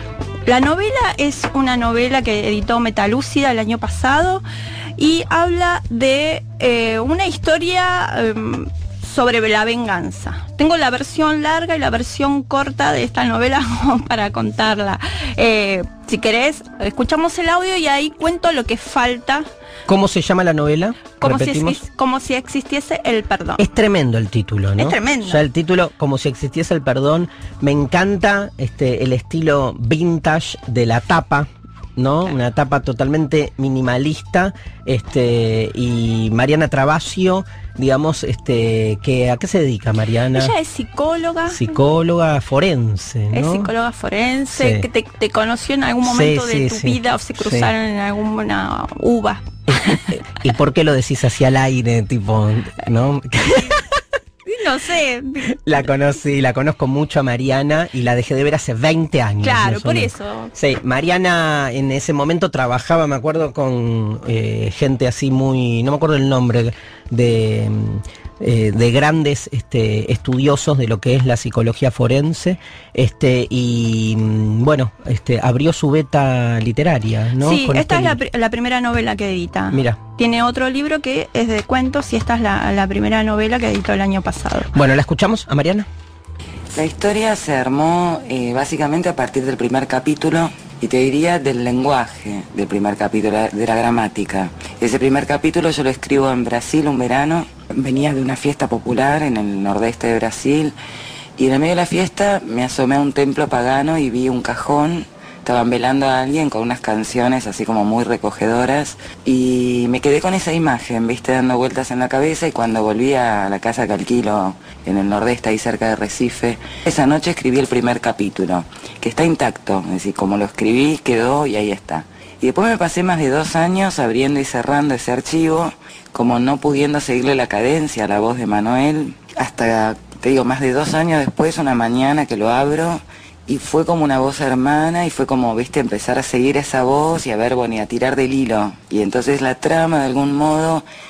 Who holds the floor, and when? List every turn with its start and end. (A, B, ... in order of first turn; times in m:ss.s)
0:00.5-0:04.4 A
0:05.0-0:19.5 A
0:19.9-0:21.8 B
0:21.2-0:23.6 A
0:23.6-0:40.5 B
0:24.8-0:25.4 A
0:40.3-0:41.8 A
0:41.5-0:43.7 B
0:43.3-0:50.0 A
0:44.5-0:44.9 B
0:46.0-0:47.7 B
0:49.7-0:53.9 B
0:54.4-0:55.9 A
0:55.6-1:18.2 B
0:59.4-1:00.5 A
1:17.4-1:24.7 A
1:19.7-1:20.0 B
1:24.7-1:25.9 B
1:26.7-1:40.8 C
1:41.4-2:20.8 C